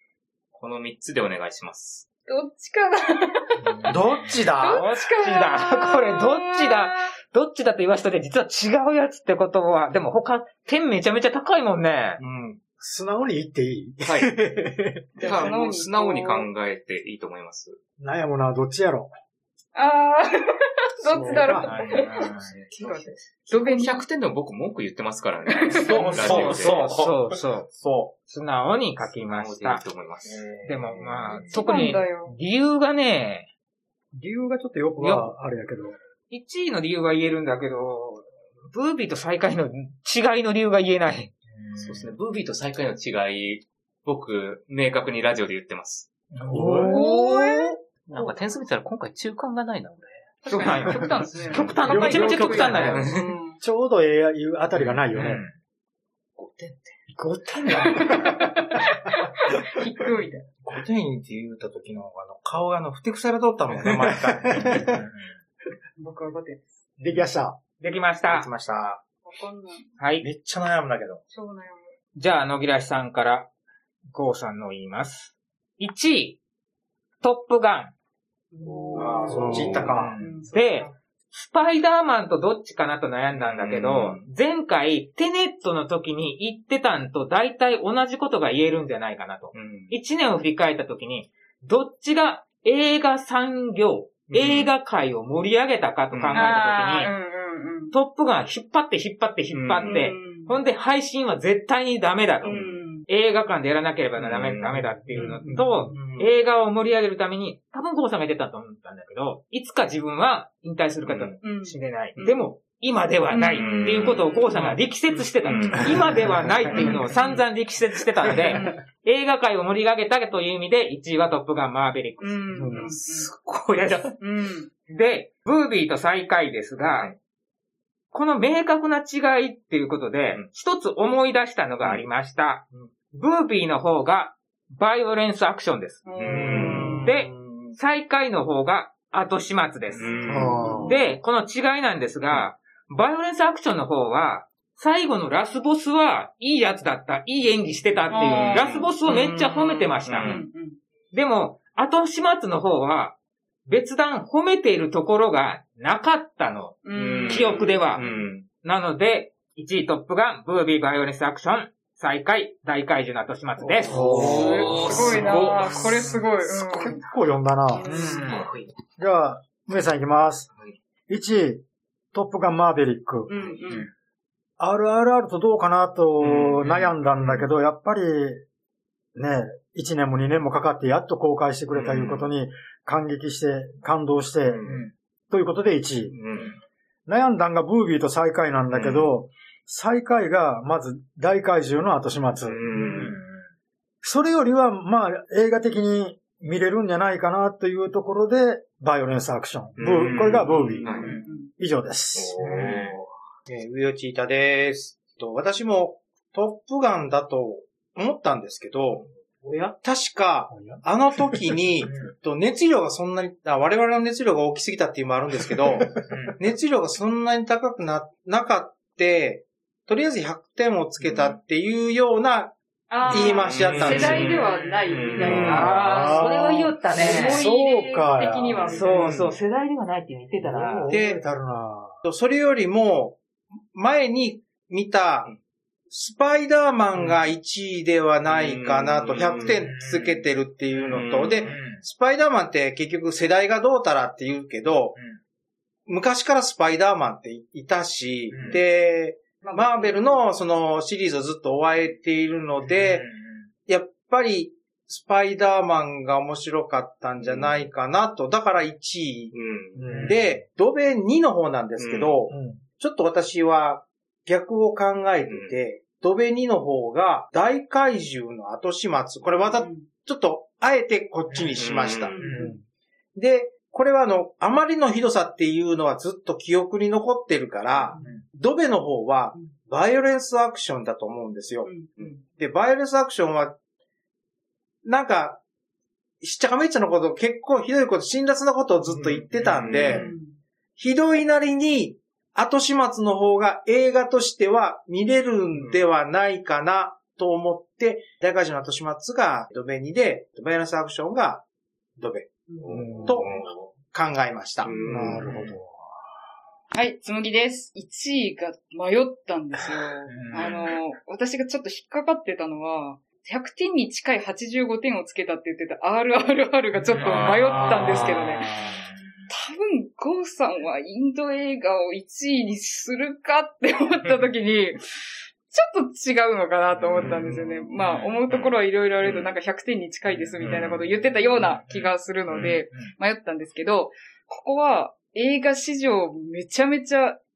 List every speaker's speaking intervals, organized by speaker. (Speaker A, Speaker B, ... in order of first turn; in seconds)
Speaker A: 0.5-2.1, 14.0-14.3, 15.2-17.8, 22.5-26.9, 29.2-30.4, 31.3-31.6, 41.8-46.1, 48.1-50.2, 52.9-53.3, 56.4-56.9, 78.6-80.0, 83.3-84.2, 89.5-89.9, 94.3-94.7, 96.1-96.5, 99.5-100.1, 104.2-106.3, 111.0-111.4, 113.5-114.8, 115.4-117.1, 122.7-124.1, 136.2-137.8, 139.9-140.7, 148.5-149.0, 150.0-150.4, 156.9-158.5, 163.9-166.2, 168.3-168.7, 176.2-177.3, 181.7-182.3, 184.4-184.8, 186.1-186.6, 188.7-189.2, 192.4-193.2, 199.8-201.1, 202.2-203.0, 223.2-225.7, 238.3-239.6, 240.9-241.5, 257.2-257.7, 259.3-259.9, 261.8-262.2, 265.3-265.6, 271.6-272.2, 288.9-290.1, 302.6-303.7, 304.6-305.6, 310.3-310.7, 317.0-318.4, 327.0-327.3, 328.3-328.6, 330.4-330.7, 332.3-332.6
Speaker B: 2.3-3.9, 4.5-7.0, 15.2-16.5, 19.8-24.1, 25.5-26.3, 31.4-32.3, 46.8-47.8, 50.4-53.6, 57.7-60.5, 66.0-66.8, 69.2-69.9, 71.3-71.9, 78.5-79.5, 80.2-80.8, 96.3-97.9, 99.8-100.6, 102.4-103.1, 105.1-105.9, 111.4-112.5, 113.3-114.6, 116.7-117.4, 118.3-118.8, 122.2-123.3, 124.2-124.7, 136.1-137.1, 140.2-140.8, 148.1-150.8, 156.8-158.3, 164.3-167.0, 167.7-168.3, 173.3-173.9, 192.7-193.2, 201.1-201.5, 222.9-225.8, 226.7-229.1, 249.4-250.2, 269.4-269.9, 272.2-272.5, 281.6-282.2, 289.7-290.4, 302.5-303.1, 306.7-318.5, 319.3-324.8, 325.5-337.2
Speaker C: 3.6-12.2, 21.6-22.5, 26.1-27.7, 28.3-29.8, 30.6-33.5, 35.0-35.3, 36.3-42.1, 46.3-47.0, 50.5-53.1, 54.7-55.5, 57.1-58.3, 64.5-65.2, 67.8-68.5, 70.0-70.2, 72.1-73.5, 74.1-76.4, 77.2-77.9, 79.9-97.1, 97.9-122.4, 123.7-124.0, 124.9-127.1, 128.1-136.1, 137.0-140.1, 140.8-150.4, 151.1-153.2, 153.7-158.0, 158.6-164.1, 167.8-168.5, 184.7-184.9, 192.9-193.4, 209.4-209.7, 211.8-212.1, 216.1-216.4, 223.7-227.4, 228.6-230.9, 239.5-241.8, 248.3-248.6, 252.6-253.5, 259.9-260.2, 272.2-272.5, 310.1-310.6, 316.8-318.9, 326.9-328.2, 330.1-330.8, 331.3-331.9
Speaker D: 3.9-4.8, 12.2-12.6, 25.8-28.1, 30.2-31.2, 60.6-64.8, 68.3-69.0, 70.2-71.2, 79.0-80.1, 200.8-201.1, 202.4-209.1, 209.8-222.5, 223.1-224.3, 228.9-229.4, 230.9-231.2, 232.0-233.2, 233.7-235.3, 235.9-245.0, 245.9-253.1, 253.7-259.4, 259.9-272.2, 273.2-281.7, 282.2-283.6, 284.9-285.4, 286.2-290.1, 290.8-301.4, 302.0-302.3, 303.0-305.3
Speaker E: 12.8-15.5, 18.0-19.1, 21.1-21.7, 34.1-36.0, 46.5-48.3, 51.8-55.4, 63.9-65.0, 67.0-67.6, 79.3-80.0, 122.5-122.9, 136.5-137.1, 140.3-141.1, 163.7-165.7, 166.4-168.0, 169.0-170.5, 171.1-173.3, 174.6-178.4, 179.2-184.7, 185.3-186.2, 187.1-192.8, 194.0-202.8, 210.5-211.5, 225.2-228.8, 230.4-232.0, 259.8-260.4, 262.3-262.6, 272.2-272.6, 302.7-303.2, 304.7-305.7